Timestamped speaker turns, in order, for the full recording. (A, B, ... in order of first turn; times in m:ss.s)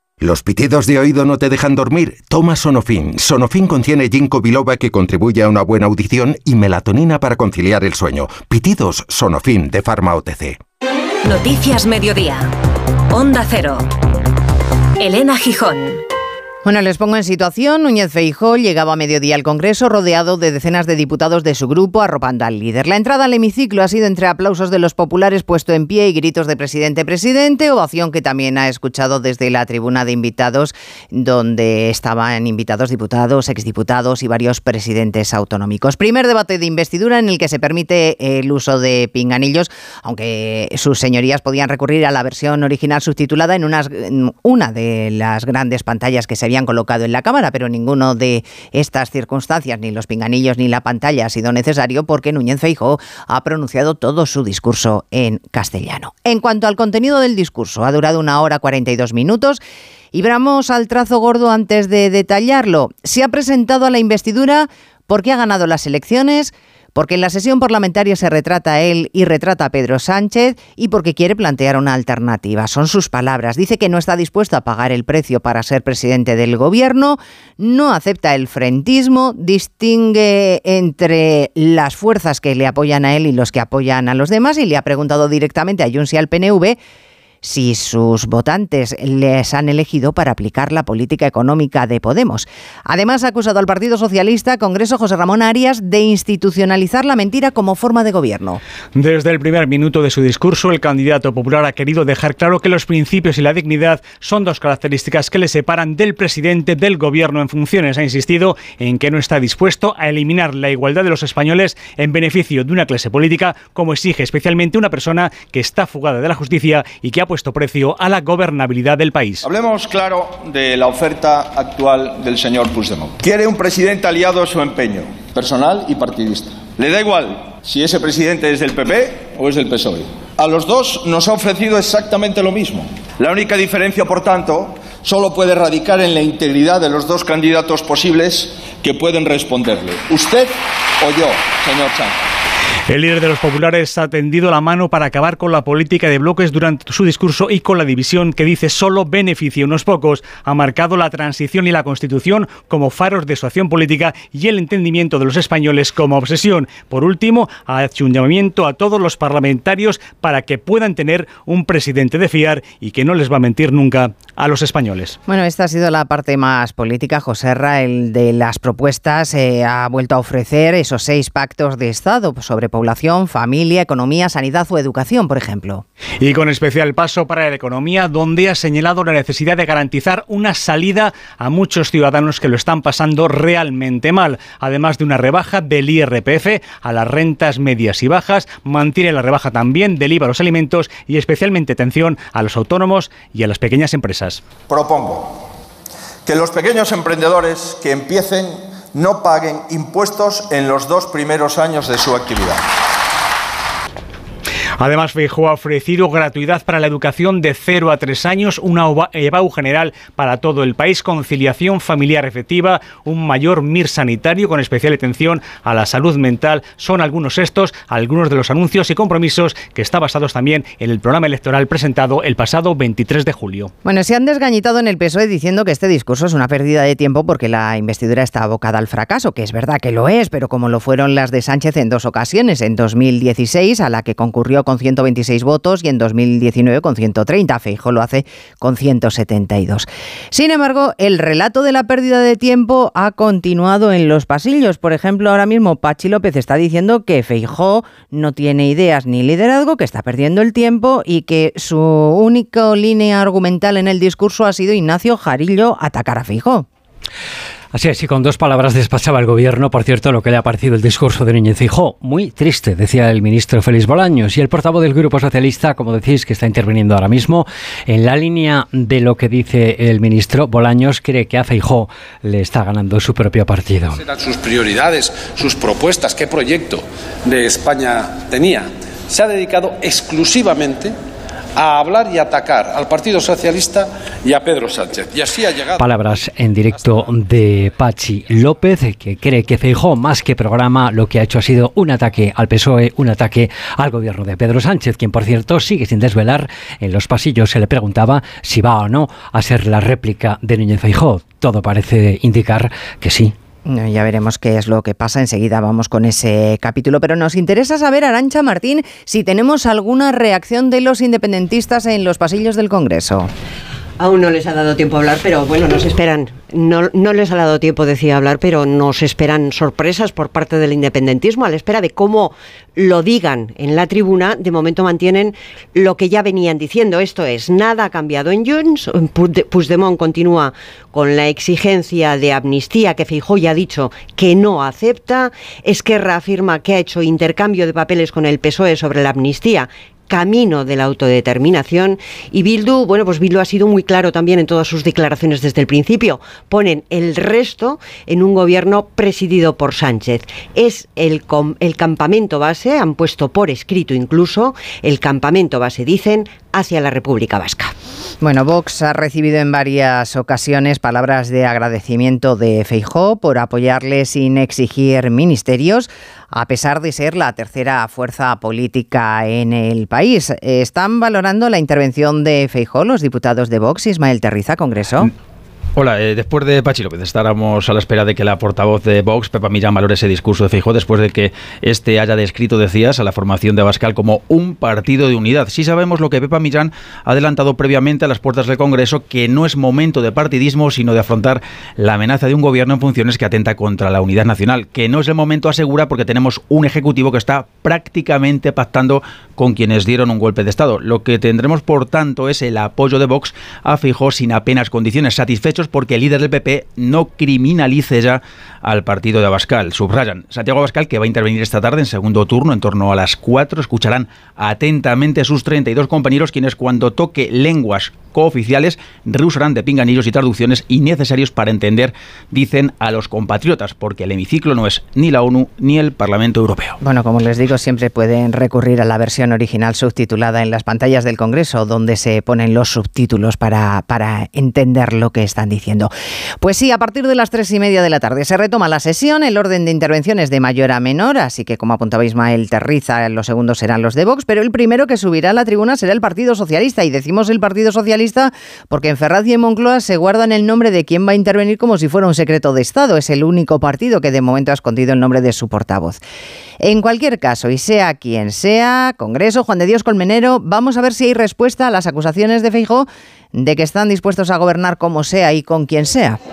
0:00.2-0:04.9 A
0:05.4-0:10.5 A
0:11.2-0:12.5 B
0:13.1-0:13.9 B
0:15.0-0:16.0 B
0:16.6-0:59.6 C
1:00.1-1:26.8 C
1:27.4-1:38.6 C
1:39.0-1:59.4 D
1:59.4-2:22.2 E
2:22.9-2:45.2 D
2:45.3-2:55.8 C
2:56.2-3:14.4 D
3:14.7-3:15.4 E
3:16.2-3:22.6 E
3:24.8-3:43.7 D
3:43.8-4:16.6 C
4:17.7-4:34.0 F
4:34.1-4:36.6 G
4:37.3-4:38.4 G
4:40.0-4:40.5 G
4:41.6-4:43.6 G
4:44.4-4:45.6 G
4:45.8-5:03.3 F
5:03.7-5:13.3 C
5:14.0-5:57.7 H
5:58.2-6:15.1 C
6:15.8-7:06.8 I
7:06.8-7:15.9 C
7:16.4-7:36.0 C
7:36.6-7:46.2 C